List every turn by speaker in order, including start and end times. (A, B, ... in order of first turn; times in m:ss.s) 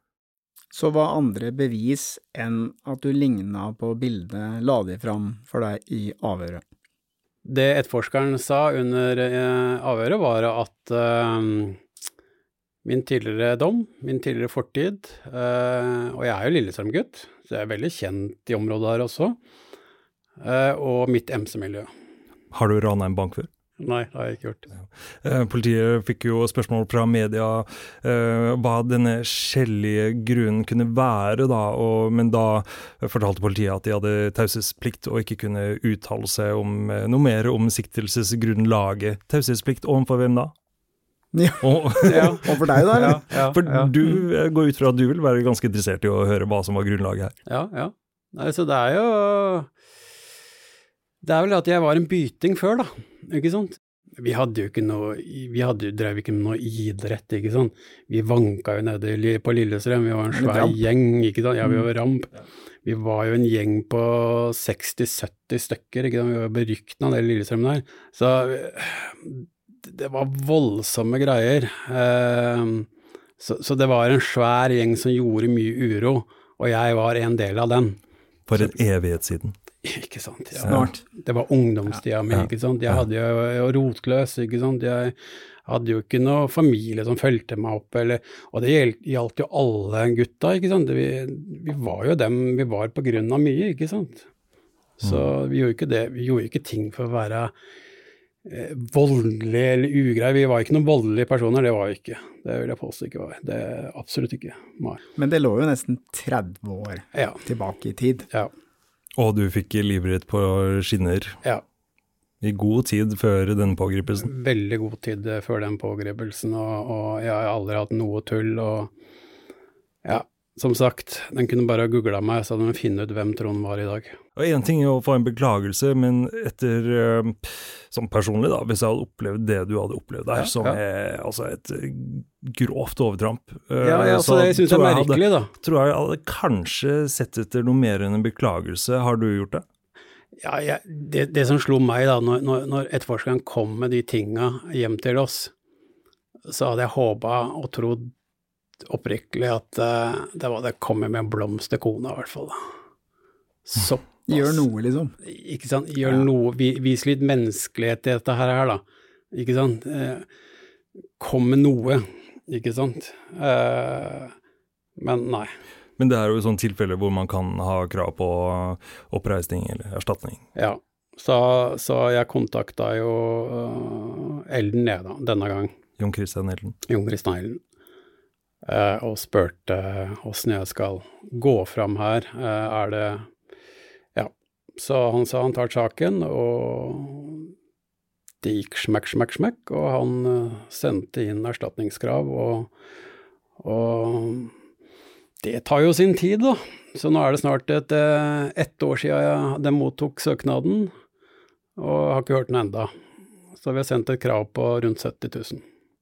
0:00.7-0:06.6 A
0:07.4-0:11.8 B
0:12.8-0:19.4 B
0:20.4-0:21.9 B
0:22.5-0:23.5 C
0:23.8-0:24.7 B
0:25.2-0:40.5 C
0:41.3-0:43.2 A
0:41.6-0:47.4 C
0:42.0-0:43.9 B
0:47.5-0:49.7 B
0:51.2-1:02.3 B
1:00.3-1:00.8 A
1:02.8-1:12.9 B
1:13.4-1:18.0 B
1:18.5-1:19.6 C
1:19.8-1:25.2 B
1:20.6-1:20.9 C
1:20.7-1:21.0 A
1:22.3-1:23.0 C
1:25.7-1:34.3 B
1:35.0-1:37.5 B
1:38.4-1:45.0 B
1:45.2-1:48.3 A
1:47.1-1:47.4 B
1:49.2-1:51.4 C
1:52.4-1:54.3 C
1:54.2-1:58.9 B
2:00.0-2:04.2 B
2:04.4-2:19.6 C
2:10.4-2:10.8 B
2:13.8-2:15.5 B
2:20.4-2:25.5 B
2:26.5-2:28.1 B
2:28.9-2:32.6 B
2:33.7-2:34.6 B
2:34.3-2:35.1 A
2:35.2-2:40.3 B
2:41.2-2:44.3 B
2:45.0-2:45.5 B
2:46.0-2:50.4 C
2:50.6-2:55.7 B
2:56.0-2:56.8 C
2:56.9-2:57.6 B
2:58.7-3:03.3 B
3:04.2-3:07.5 B
3:08.4-3:12.7 B
3:13.6-3:14.5 B
3:15.4-3:20.9 B
3:21.8-3:22.9 B
3:23.6-3:25.6 B